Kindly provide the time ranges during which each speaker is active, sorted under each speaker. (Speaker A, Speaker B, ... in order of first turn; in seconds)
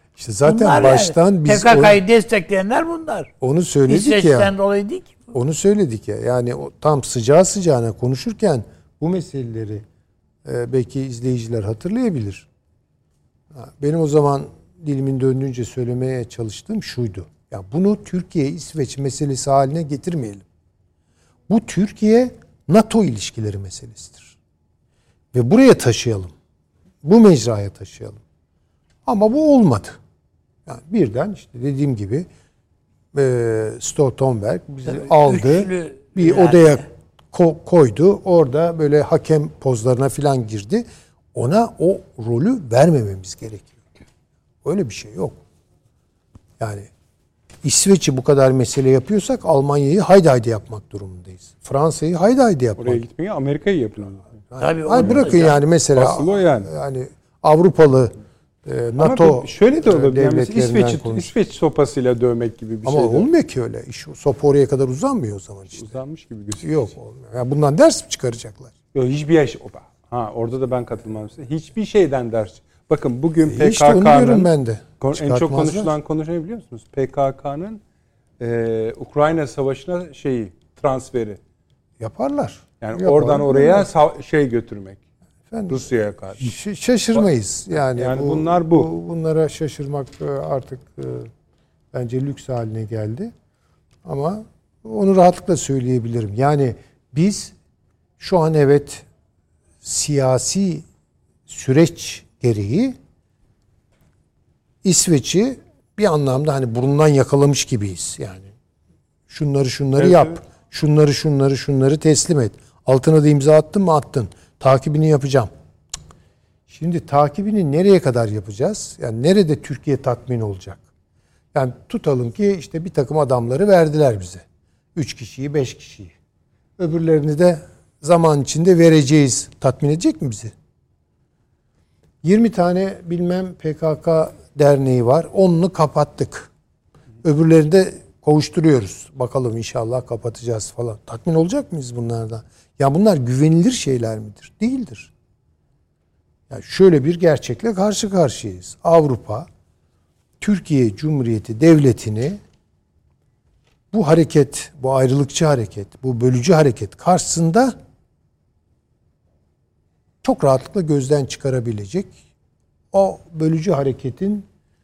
Speaker A: 0.2-2.0, 3.4-4.5, 5.3-9.8, 10.4-12.5, 13.5-20.4, 21.5-24.4, 25.3-26.3, 27.0-28.2, 29.1-30.0, 30.7-32.3, 33.1-43.8, 44.6-45.4, 46.6-46.9, 47.6-53.0, 54.5-58.1, 58.6-61.3, 62.8-65.9, 66.6-68.7, 73.5-75.9, 82.0-83.9, 85.5-91.3, 91.9-93.3, 94.0-97.5, 98.2-99.1, 99.8-100.8, 101.5-103.0, 104.8-108.5, 109.3-115.5, 116.7-120.8, 121.5-126.2, 126.8-130.5, 132.2-136.5, 137.2-145.1, 146.5-149.5, 150.4-152.4, 153.9-157.8, 160.2-162.2, 162.9-164.5
Speaker B: 0.5-3.3, 3.9-5.3, 34.9-36.9, 54.6-55.6
Speaker C: 52.8-54.3, 55.0-56.7, 59.0-63.3, 65.8-66.9, 68.9-77.8, 78.4-81.4, 82.8-85.0, 85.7-86.5, 87.9-88.9, 110.0-110.4